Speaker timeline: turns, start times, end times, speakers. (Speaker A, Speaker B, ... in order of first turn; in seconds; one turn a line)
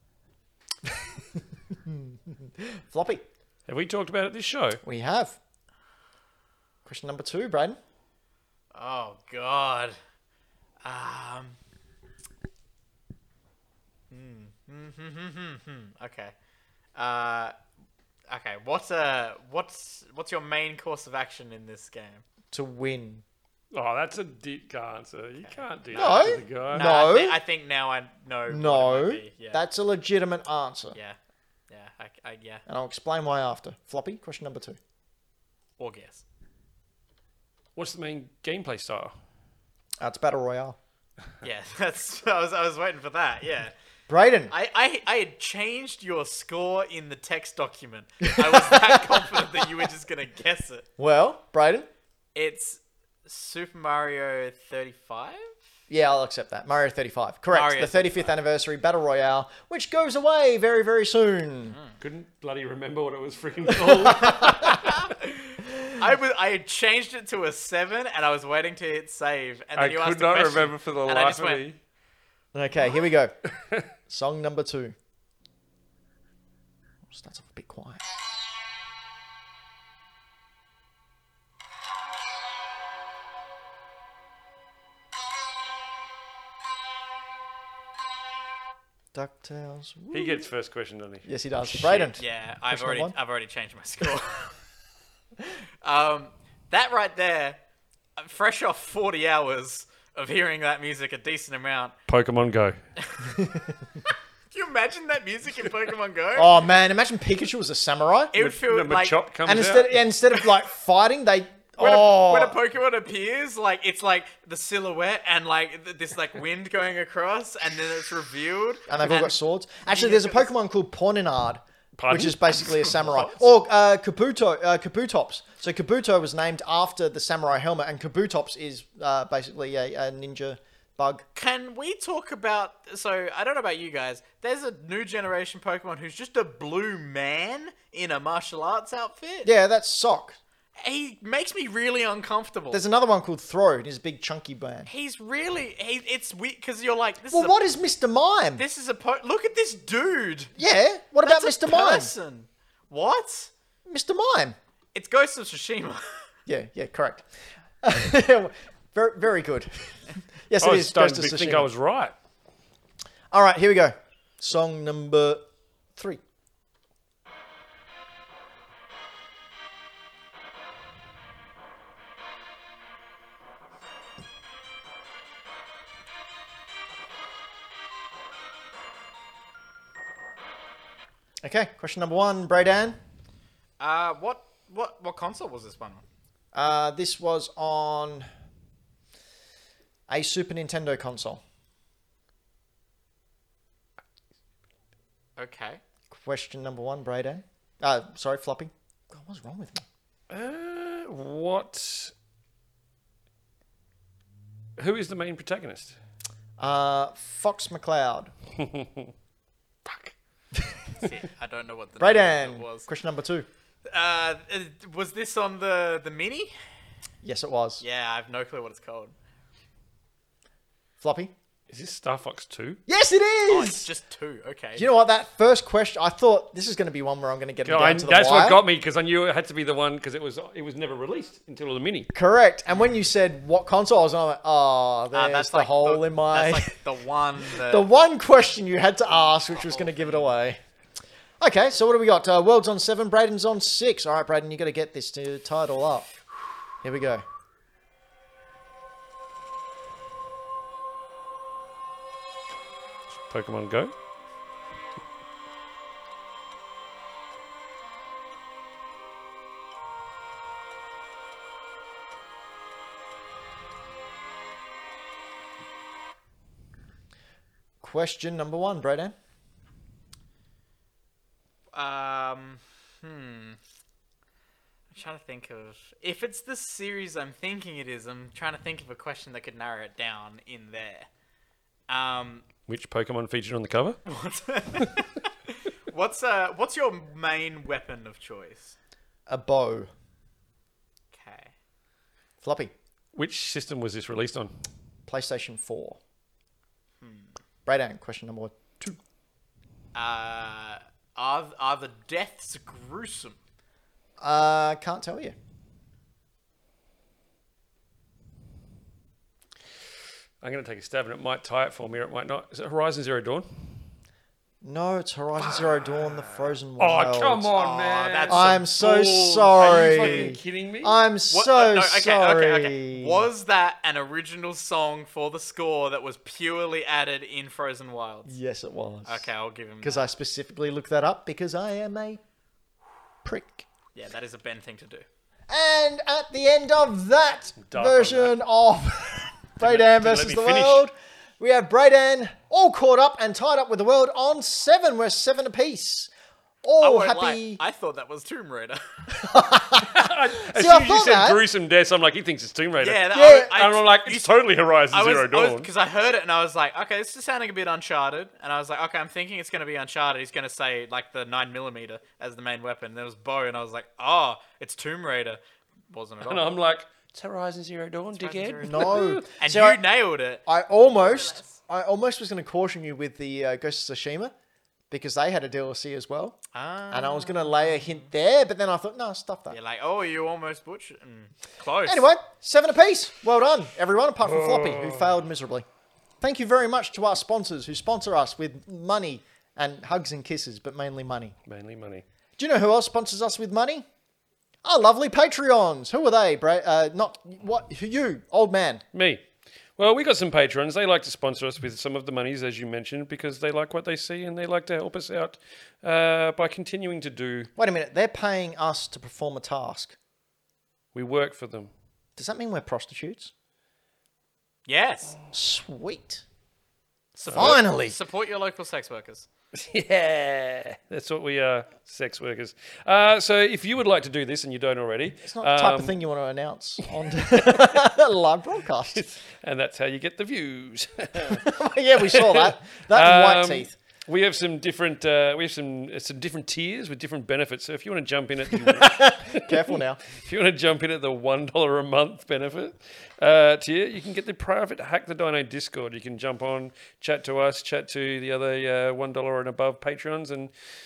Speaker A: 1.8-3.2
Speaker B: 3.7-4.8
Speaker A: 4.8-5.4
Speaker A: 6.8-7.8
Speaker C: 8.7-9.9
Speaker C: 10.8-11.6
Speaker C: 14.1-16.3
Speaker C: 16.9-17.5
Speaker C: 18.3-22.2
Speaker A: 22.5-23.2
Speaker B: 23.7-26.9
Speaker C: 25.4-29.6
Speaker A: 25.9-27.4
Speaker A: 28.5-31.0
Speaker C: 31.7-32.6
Speaker A: 32.6-34.8
Speaker C: 35.8-36.2
Speaker B: 37.8-39.1
Speaker A: 40.0-40.8
Speaker C: 41.4-43.7
Speaker A: 44.1-44.5
Speaker C: 44.5-50.9
Speaker A: 48.2-49.7
Speaker A: 51.0-51.9
Speaker C: 52.3-55.5
Speaker A: 55.9-61.8
Speaker C: 57.5-58.3
Speaker B: 62.0-64.9
Speaker A: 63.9-64.9
Speaker C: 64.8-71.7
Speaker A: 65.7-65.9
Speaker B: 69.7-71.8
Speaker A: 72.5-73.3
Speaker A: 74.0-75.0
Speaker A: 77.1-78.1
Speaker A: 89.1-90.5
Speaker B: 90.1-92.1
Speaker A: 91.2-93.1
Speaker C: 92.2-94.6
Speaker C: 95.8-97.6
Speaker C: 98.2-101.9
Speaker B: 102.1-102.8
Speaker A: 103.2-103.8
Speaker C: 104.5-106.7
Speaker A: 106.3-108.3
Speaker C: 108.3-109.2
Speaker B: 108.3-110.0
Speaker A: 109.5-112.6
Speaker C: 111.8-120.5
Speaker A: 118.9-131.2
Speaker B: 122.0-123.2
Speaker C: 122.8-123.2
Speaker C: 131.3-139.5
Speaker A: 139.4-140.4
Speaker C: 140.8-142.8
Speaker A: 142.7-144.9
Speaker C: 144.9-147.6
Speaker A: 147.3-148.6
Speaker C: 148.6-150.5
Speaker A: 150.6-152.1
Speaker C: 151.2-153.5
Speaker A: 153.9-154.6
Speaker C: 154.9-156.2
Speaker A: 156.5-157.2
Speaker A: 157.8-161.7
Speaker B: 160.6-162.1
Speaker A: 163.3-166.2
Speaker A: 181.4-183.0
Speaker C: 183.8-186.0
Speaker A: 186.5-188.3
Speaker A: 190.1-191.4
Speaker C: 195.4-195.8
Speaker A: 196.1-199.8
Speaker B: 200.3-202.1
Speaker B: 204.8-205.9
Speaker A: 206.6-208.3
Speaker B: 208.6-209.1
Speaker B: 209.8-210.1
Speaker C: 210.9-212.9
Speaker A: 212.0-213.4
Speaker C: 213.9-216.5
Speaker A: 217.2-217.8
Speaker C: 217.8-219.1
Speaker A: 221.0-221.3
Speaker B: 221.7-222.8
Speaker A: 222.9-223.9
Speaker C: 223.5-224.8
Speaker A: 224.8-228.6
Speaker B: 227.6-232.1
Speaker A: 232.1-236.7
Speaker C: 235.1-237.9
Speaker A: 237.6-240.6
Speaker C: 239.1-240.3
Speaker A: 241.4-246.1
Speaker A: 246.8-247.2
Speaker B: 253.3-253.9
Speaker A: 267.8-269.1
Speaker C: 271.7-273.6
Speaker C: 274.9-281.1
Speaker C: 281.9-282.5
Speaker B: 282.6-284.0
Speaker C: 284.1-288.8
Speaker A: 289.3-289.9
Speaker C: 291.1-291.5
Speaker A: 292.4-292.7
Speaker B: 293.1-294.5
Speaker A: 295.1-296.0
Speaker C: 297.0-297.3
Speaker A: 297.6-299.0
Speaker C: 299.9-303.4
Speaker A: 304.2-305.3
Speaker B: 310.4-313.9
Speaker A: 314.6-317.5
Speaker B: 315.4-316.3
Speaker B: 316.8-321.0
Speaker C: 317.5-318.6
Speaker A: 318.3-323.2
Speaker C: 319.8-320.3
Speaker C: 321.3-328.3
Speaker A: 328.2-329.2
Speaker C: 329.1-330.1
Speaker A: 329.8-332.2
Speaker A: 333.2-333.6
Speaker C: 333.9-335.0
Speaker A: 335.5-346.1
Speaker B: 337.6-338.4
Speaker B: 339.6-340.9
Speaker A: 346.6-347.6
Speaker C: 346.8-349.1
Speaker A: 349.1-351.4
Speaker B: 349.8-355.7
Speaker C: 352.8-354.4
Speaker A: 353.1-353.5
Speaker C: 354.9-366.5
Speaker B: 366.2-369.2
Speaker C: 368.2-371.6
Speaker A: 368.6-369.8
Speaker A: 370.4-374.3
Speaker A: 374.9-376.4
Speaker C: 376.5-378.1
Speaker A: 376.9-379.6
Speaker C: 379.5-382.1
Speaker A: 381.9-385.6
Speaker B: 384.2-385.2
Speaker A: 386.2-391.4
Speaker B: 391.4-392.0
Speaker A: 392.4-393.9
Speaker A: 394.6-398.8
Speaker B: 398.9-399.2
Speaker B: 399.8-407.5
Speaker A: 407.6-409.9
Speaker B: 410.9-411.7
Speaker A: 412.2-413.3
Speaker C: 414.7-415.2
Speaker A: 415.3-416.2
Speaker C: 417.1-419.3
Speaker A: 417.3-418.0
Speaker B: 417.3-417.6
Speaker B: 419.5-425.9
Speaker A: 425.2-429.0
Speaker B: 426.9-427.6
Speaker B: 428.9-431.4
Speaker A: 431.3-433.8
Speaker B: 432.1-450.5
Speaker A: 438.7-440.0